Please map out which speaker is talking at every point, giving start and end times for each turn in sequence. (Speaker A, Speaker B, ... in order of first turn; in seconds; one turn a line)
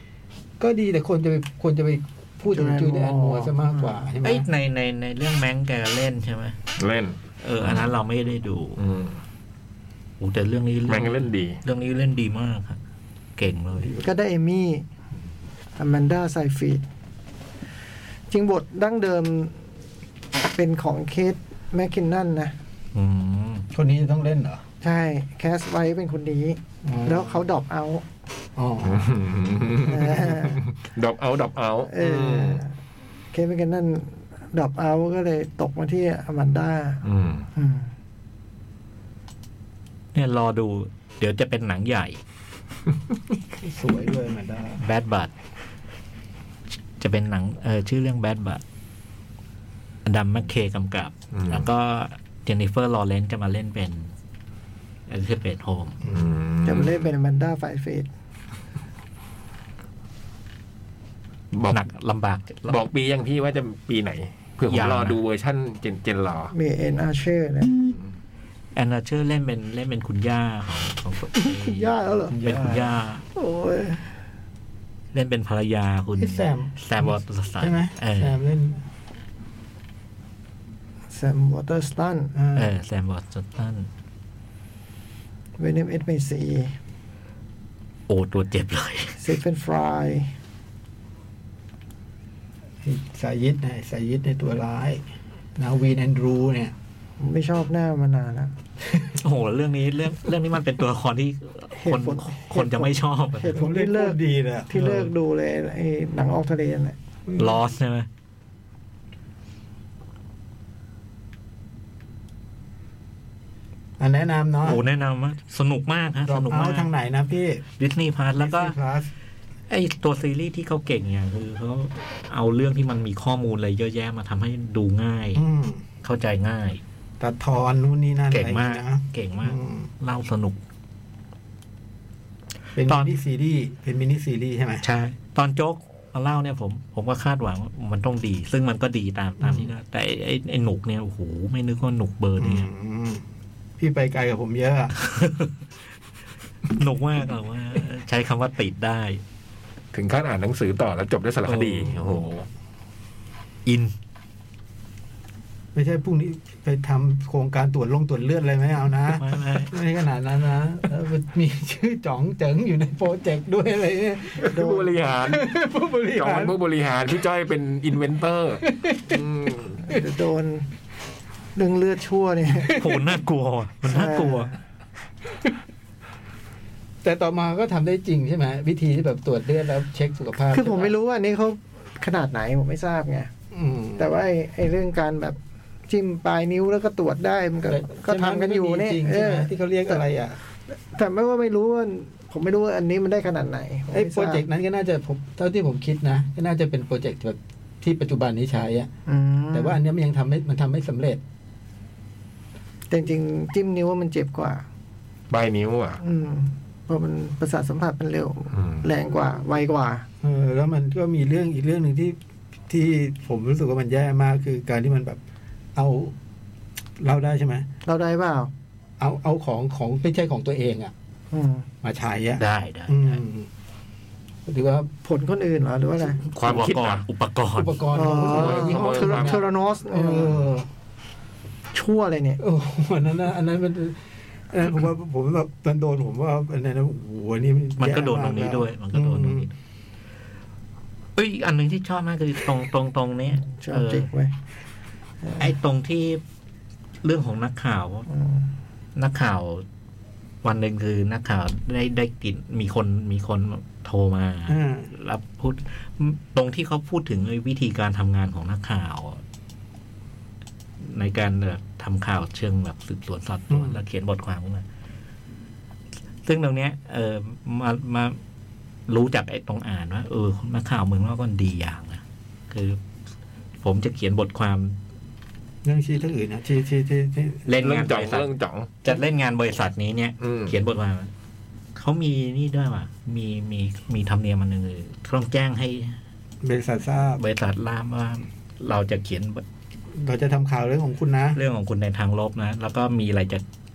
Speaker A: 0.6-4.5
Speaker B: 2.5-4.0
Speaker C: 4.2-6.6
Speaker D: 6.8-7.9
Speaker C: 7.4-8.8
Speaker D: 8.8-9.2
Speaker C: 10.2-12.8
Speaker D: 10.9-11.6
Speaker C: 13.4-13.9
Speaker A: 13.8-14.1
Speaker B: 14.0-14.8
Speaker B: 15.8-16.8
Speaker B: 18.3-19.6
Speaker B: 20.5-22.6
Speaker C: 22.9-23.7
Speaker A: 23.7-24.6
Speaker B: 24.8-28.1
Speaker A: 26.8-27.5
Speaker A: 28.6-29.1
Speaker D: 28.8-32.6
Speaker B: 29.9-30.6
Speaker B: 31.9-32.8
Speaker B: 33.3-37.0
Speaker D: 37.0-37.5
Speaker B: 37.5-37.9
Speaker C: 40.1-42.2
Speaker A: 43.6-44.8
Speaker C: 44.8-45.3
Speaker C: 47.0-48.6
Speaker C: 50.0-54.1
Speaker D: 51.3-51.6
Speaker C: 55.1-56.0
Speaker D: 56.1-57.1
Speaker B: 56.6-58.1
Speaker D: 61.5-61.8
Speaker C: 61.7-62.8
Speaker D: 62.7-66.5
Speaker C: 64.7-65.2
Speaker B: 66.5-67.9
Speaker C: 68.7-73.2
Speaker B: 71.4-72.4
Speaker A: 72.3-73.0
Speaker B: 73.3-74.1
Speaker C: 75.1-78.4
Speaker A: 76.2-78.8
Speaker B: 81.1-82.3
Speaker A: 82.3-82.8
Speaker C: 82.5-83.9
Speaker B: 85.6-86.8
Speaker C: 88.1-89.2
Speaker B: 89.2-90.3
Speaker A: 92.8-95.0
Speaker A: 95.6-96.7
Speaker B: 97.2-98.5
Speaker A: 98.8-99.2
Speaker C: 99.2-103.6
Speaker B: 101.8-107.0
Speaker A: 103.5-104.7
Speaker C: 104.7-105.1
Speaker A: 107.3-107.6
Speaker C: 107.4-108.1
Speaker A: 114.0-114.8
Speaker C: 114.6-116.9
Speaker A: 116.3-117.6
Speaker C: 117.8-118.8
Speaker A: 118.4-119.1
Speaker C: 119.7-125.5
Speaker A: 125.4-125.8
Speaker C: 126.0-126.8
Speaker A: 127.2-129.9
Speaker C: 128.3-130.6
Speaker A: 132.8-134.8
Speaker C: 132.9-133.1
Speaker C: 134.8-142.7
Speaker A: 139.4-139.7
Speaker A: 142.4-143.2
Speaker A: 143.8-144.9
Speaker C: 145.0-145.6
Speaker C: 146.7-149.2
Speaker D: 149.9-152.5
Speaker C: 151.5-152.0
Speaker C: 153.7-153.9
Speaker A: 155.7-166.6
Speaker C: 159.1-159.7
Speaker D: 164.4-165.5
Speaker B: 164.5-164.9
Speaker D: 166.1-169.8
Speaker A: 168.6-170.1
Speaker B: 169.9-170.7
Speaker B: 171.6-172.8
Speaker A: 172.5-173.2
Speaker C: 172.8-174.6
Speaker B: 173.9-174.5
Speaker A: 177.0-180.9
Speaker B: 180.5-183.3
Speaker A: 183.5-184.2
Speaker B: 184.0-190.0
Speaker A: 187.6-190.4
Speaker B: 190.7-194.4
Speaker A: 193.9-198.9
Speaker B: 199.1-199.8
Speaker A: 199.5-201.2
Speaker B: 202.9-204.7
Speaker D: 205.3-206.0
Speaker B: 206.0-210.1
Speaker D: 208.5-208.8
Speaker A: 210.2-212.2
Speaker A: 212.7-215.2
Speaker A: 215.8-216.2
Speaker A: 217.0-217.7
Speaker B: 217.9-218.5
Speaker A: 219.0-220.9
Speaker B: 221.3-221.7
Speaker A: 221.8-223.5
Speaker C: 222.4-223.2
Speaker A: 224.5-224.9
Speaker B: 225.1-226.2
Speaker D: 226.2-227.0
Speaker C: 226.2-227.9
Speaker A: 227.6-230.7
Speaker B: 227.9-230.4
Speaker D: 228.0-229.4
Speaker B: 231.7-232.4
Speaker A: 232.4-239.5
Speaker C: 237.8-239.5
Speaker C: 241.2-244.1
Speaker B: 243.5-244.3
Speaker C: 245.4-246.2
Speaker C: 247.0-248.1
Speaker B: 248.1-248.5
Speaker C: 249.0-249.7
Speaker C: 250.4-259.2
Speaker A: 254.5-254.9
Speaker C: 260.8-264.6
Speaker A: 263.5-263.8
Speaker C: 266.2-268.2
Speaker C: 268.9-272.8
Speaker C: 273.6-274.8
Speaker A: 275.6-277.5
Speaker C: 277.5-278.3
Speaker D: 277.6-278.8
Speaker C: 278.8-281.1
Speaker D: 280.2-280.5
Speaker C: 281.8-286.0
Speaker A: 286.4-287.2
Speaker C: 287.2-289.4
Speaker A: 289.9-291.4
Speaker C: 291.3-293.4